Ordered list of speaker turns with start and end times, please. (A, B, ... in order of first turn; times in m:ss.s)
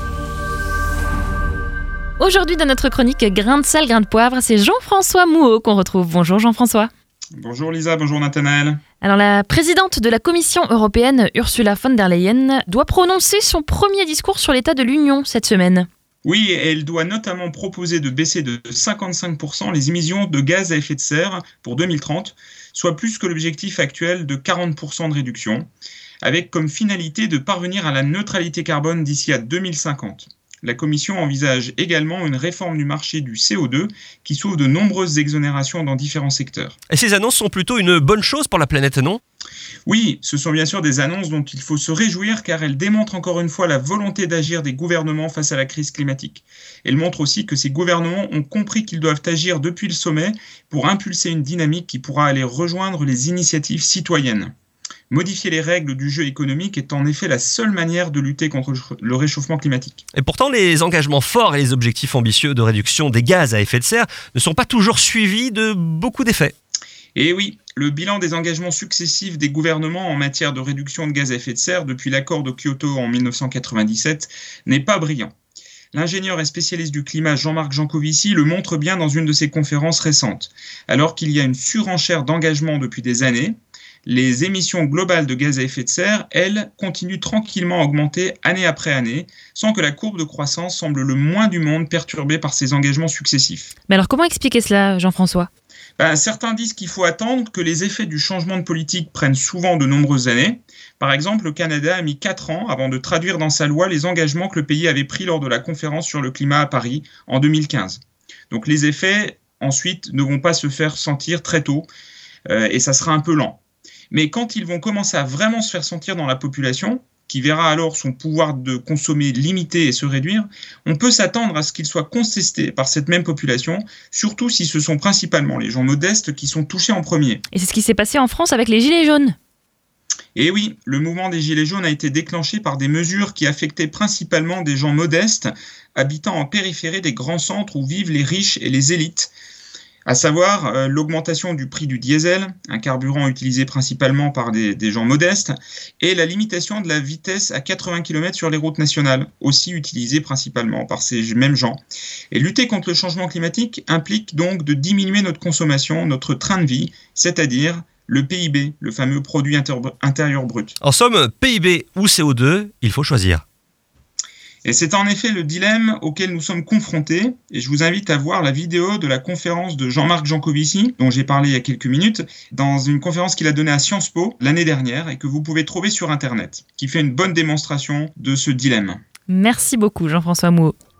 0:02.2-0:06.9 A
0:07.3-0:08.8 B
0:09.0-0:15.9 A
0:16.2-0:25.7 B
0:26.2-0:36.8 B
0:36.9-0:39.2 C
0:39.8-0:54.5 B
0:55.1-1:00.0 B
1:00.1-1:06.5 C
1:07.2-1:15.3 B
1:15.9-1:33.7 B
1:33.9-1:35.5 A
1:36.0-1:51.9 B
1:52.5-2:07.4 B
2:07.5-2:09.3 A
2:10.4-2:19.3 B
2:20.1-2:31.8 B
2:32.3-2:40.8 B
2:40.8-2:43.4 C
2:44.6-2:59.0 B
2:59.3-3:00.7 A